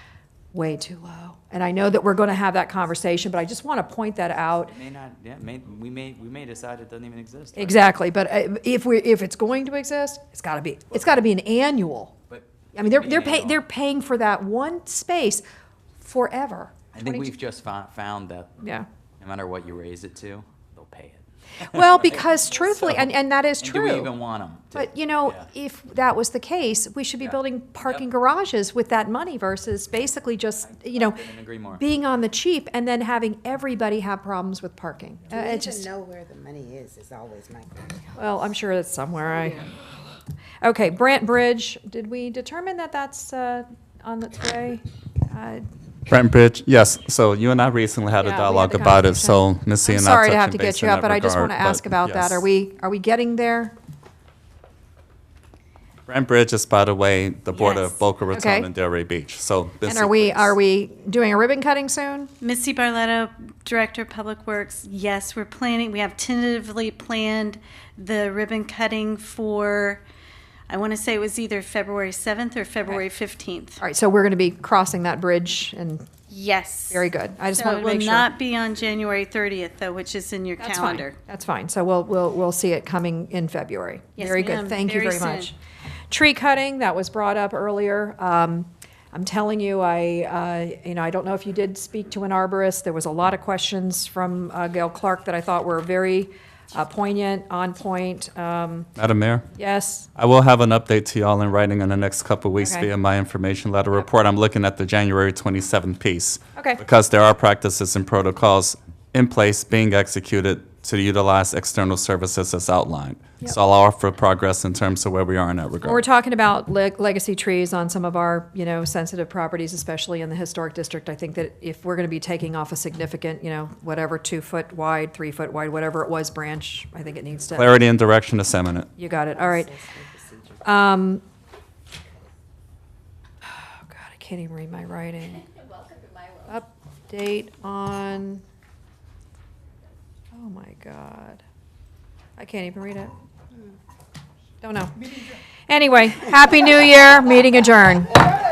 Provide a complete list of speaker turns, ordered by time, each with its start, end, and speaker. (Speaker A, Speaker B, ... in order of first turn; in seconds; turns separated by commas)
Speaker A: 0.5-4.8, Speaker B: 4.7-7.8, Speaker A: 7.6-12.1, Speaker B: 12.3-13.6, Speaker A: 12.7-15.4, Speaker A: 16.0-17.3, Speaker B: 16.9-25.4, Speaker A: 18.6-18.9, Speaker A: 21.6-24.1, Speaker A: 24.7-35.9, Speaker B: 27.2-28.0, Speaker B: 30.7-31.8, Speaker C: 35.3-38.1, Speaker A: 38.1-39.7, Speaker A: 40.6-45.6, Speaker D: 46.1-52.5, Speaker A: 48.2-53.7, Speaker D: 56.1-60.5, Speaker E: 57.5-58.0, Speaker A: 58.3-58.7, Speaker A: 59.8-62.3, Speaker E: 62.4-70.0, Speaker E: 70.7-73.8, Speaker A: 73.8-76.0, Speaker E: 76.3-81.2, Speaker A: 76.9-78.3, Speaker A: 80.6-85.5, Speaker E: 84.2-85.5, Speaker A: 86.1-98.9, Speaker D: 99.0-99.5, Speaker A: 99.5-100.1, Speaker D: 100.1-116.0, Speaker A: 102.6-102.9, Speaker A: 106.5-106.8, Speaker A: 115.8-127.7, Speaker D: 127.5-128.9, Speaker A: 129.0-129.7, Speaker C: 129.2-130.6, Speaker A: 130.6-131.2, Speaker A: 133.5-135.5, Speaker A: 136.4-138.4, Speaker A: 140.3-141.4, Speaker A: 142.4-143.1, Speaker A: 144.6-144.9, Speaker A: 145.7-148.2